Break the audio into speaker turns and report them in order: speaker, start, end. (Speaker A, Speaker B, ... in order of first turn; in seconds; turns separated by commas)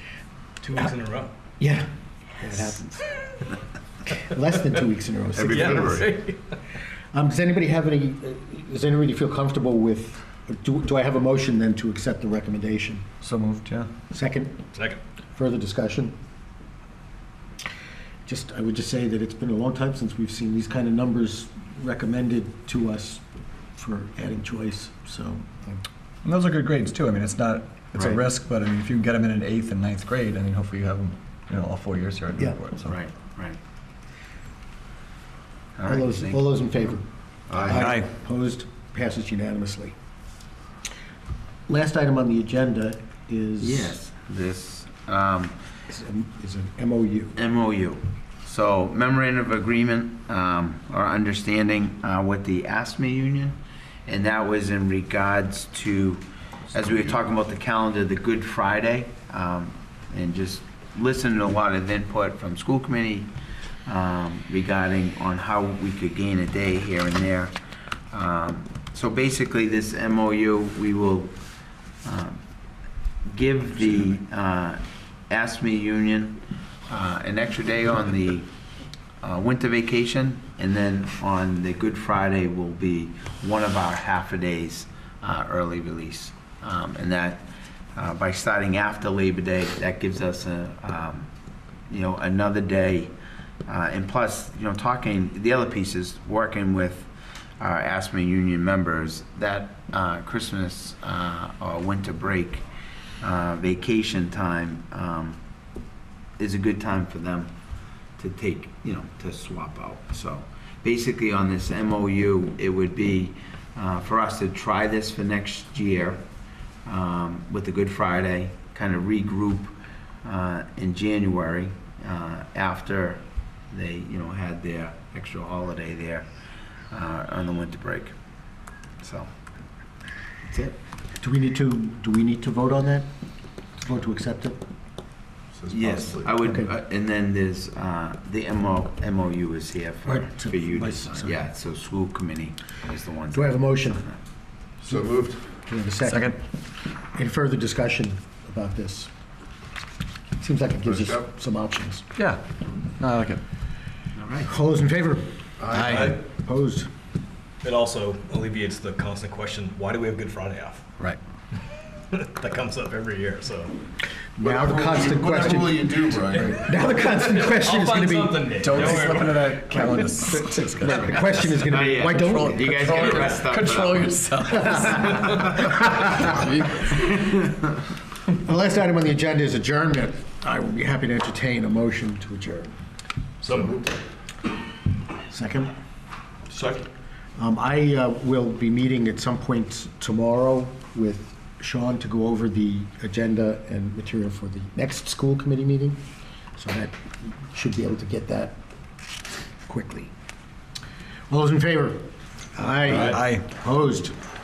Speaker A: 0.6-1.3, Speaker B: 1.6-1.9, Speaker B: 2.4-3.0, Speaker B: 4.2-6.1, Speaker C: 5.4-6.0, Speaker A: 5.4-6.5, Speaker B: 7.1-13.2, Speaker D: 13.2-13.9, Speaker B: 14.1-14.6, Speaker A: 14.7-15.0, Speaker B: 15.3-16.1, Speaker B: 18.3-23.2, Speaker B: 23.8-25.8, Speaker D: 26.2-33.0, Speaker E: 27.9-28.2, Speaker E: 32.9-33.6, Speaker E: 35.8-36.4, Speaker B: 35.9-39.9, Speaker D: 37.7-38.1, Speaker B: 41.7-44.0, Speaker E: 43.6-45.5, Speaker B: 45.9-47.4, Speaker E: 47.4-63.3, Speaker E: 63.9-67.5, Speaker E: 68.1-71.3, Speaker E: 72.0-72.4, Speaker E: 73.3-78.5, Speaker E: 79.2-91.3, Speaker E: 91.9-93.1, Speaker E: 93.7-97.1, Speaker E: 97.6-102.6, Speaker E: 103.2-105.4, Speaker E: 106.4-107.5, Speaker E: 108.2-116.2, Speaker E: 116.9-126.3, Speaker E: 126.9-128.1, Speaker E: 129.0-129.3, Speaker E: 130.5-130.8, Speaker B: 131.2-133.1, Speaker B: 133.8-134.6, Speaker C: 135.6-136.3, Speaker E: 135.7-144.2, Speaker B: 136.4-136.7, Speaker B: 140.1-141.3, Speaker B: 143.3-144.1, Speaker C: 144.8-145.4, Speaker B: 145.7-146.4, Speaker D: 146.0-146.4, Speaker B: 147.2-149.1, Speaker B: 150.4-152.0, Speaker C: 150.9-151.2, Speaker D: 152.2-152.4, Speaker D: 153.0-153.4, Speaker E: 154.2-154.5, Speaker B: 154.5-155.3, Speaker C: 155.6-156.0, Speaker D: 155.7-156.1, Speaker A: 155.8-156.2, Speaker B: 156.3-156.9, Speaker A: 157.6-160.8, Speaker A: 162.1-163.8, Speaker B: 164.4-169.1, Speaker C: 164.4-166.6, Speaker A: 167.1-169.7, Speaker D: 168.6-176.9, Speaker B: 169.7-172.8, Speaker E: 171.6-175.5, Speaker B: 174.7-176.2, Speaker E: 177.1-177.3, Speaker B: 178.4-182.7, Speaker A: 183.4-183.9, Speaker B: 185.3-185.7, Speaker A: 186.5-186.9, Speaker B: 187.4-196.0, Speaker B: 196.6-198.6, Speaker B: 199.7-200.1, Speaker B: 201.3-204.2, Speaker D: 202.9-203.4